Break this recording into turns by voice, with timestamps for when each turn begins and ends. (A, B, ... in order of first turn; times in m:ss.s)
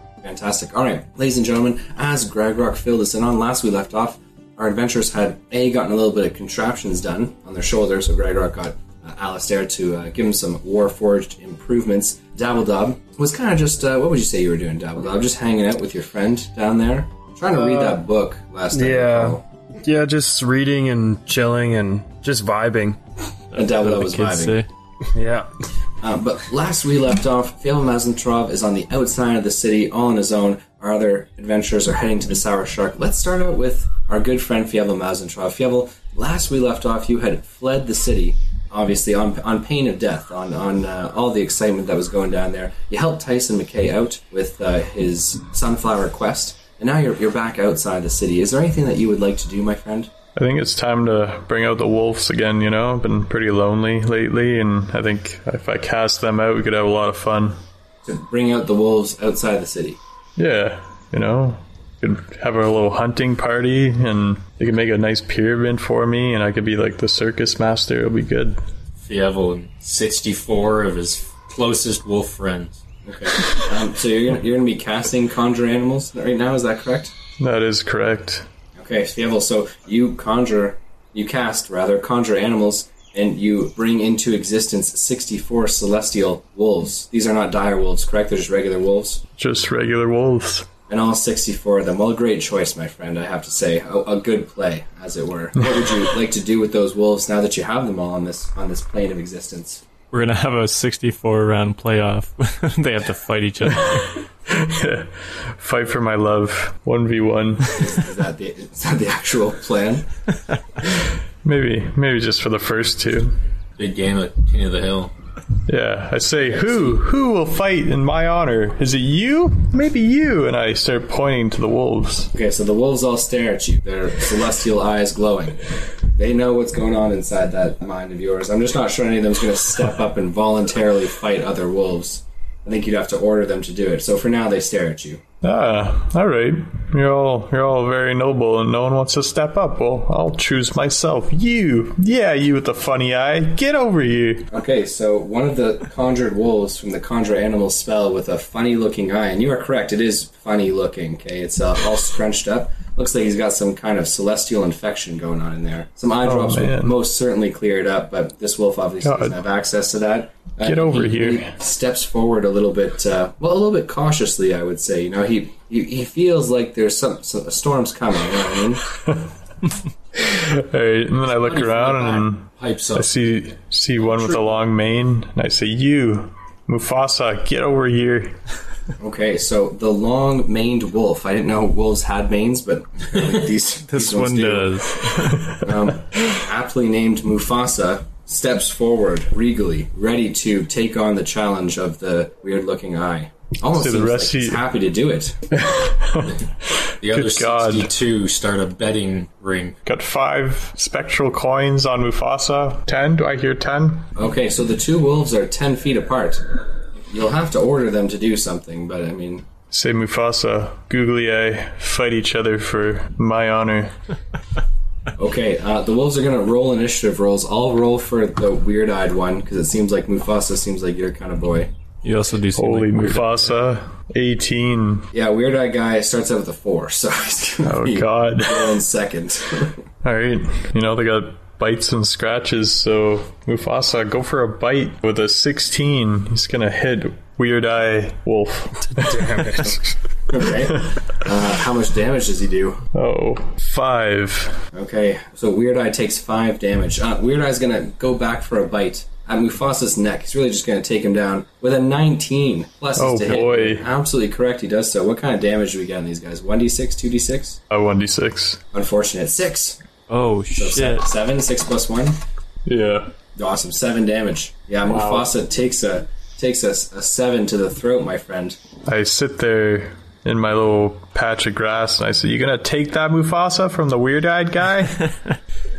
0:00.2-0:19.4 A
0:17.6-0:18.0 B
0:18.7-0:23.0 B
0:23.5-0:24.7 C
0:23.6-0:24.6 A
0:25.2-0:25.5 B
0:26.0-0:50.1 A
0:50.4-0:57.6 D
0:58.0-1:00.0 A
1:00.4-1:08.6 D
1:09.0-1:12.8 E
1:13.0-1:17.1 A
1:17.4-1:18.5 D
1:18.8-1:29.2 A
1:29.4-1:30.7 D
1:30.9-1:39.8 A
1:40.1-1:44.2 C
1:44.5-1:47.9 D
1:47.7-1:50.1 A
1:51.4-1:53.4 D
1:53.8-1:55.1 E
1:55.7-2:02.3 D
2:02.3-2:15.2 A
2:15.4-2:24.5 D
2:24.5-2:48.9 A
2:36.2-2:37.0 D
2:39.0-2:39.4 D
2:40.6-2:41.5 D
2:50.2-2:58.4 D
2:51.3-2:53.1 E
2:59.0-3:04.9 A
3:03.9-3:05.6 C
3:05.5-3:15.4 A
3:13.7-3:14.6 D
3:15.5-3:16.4 D
3:17.0-3:19.8 E
3:17.0-3:17.9 D
3:19.8-3:24.1 D
3:24.2-3:26.5 A
3:27.1-3:29.4 A
3:29.7-3:33.9 D
3:35.2-3:41.7 A
3:42.0-3:43.5 C
3:42.6-3:45.1 D
3:45.1-3:49.8 A
3:47.6-3:48.8 D
3:50.0-3:59.7 D
3:58.9-3:59.9 B
4:00.3-4:02.8 A
4:02.9-4:04.6 D
4:04.7-4:17.6 A
4:13.0-4:13.9 D
4:17.7-4:18.6 D
4:18.7-4:19.8 A
4:20.1-4:21.1 C
4:20.5-4:22.2 A
4:22.7-4:23.1 D
4:23.4-4:28.6 A
4:25.0-4:25.2 E
4:28.8-4:35.1 D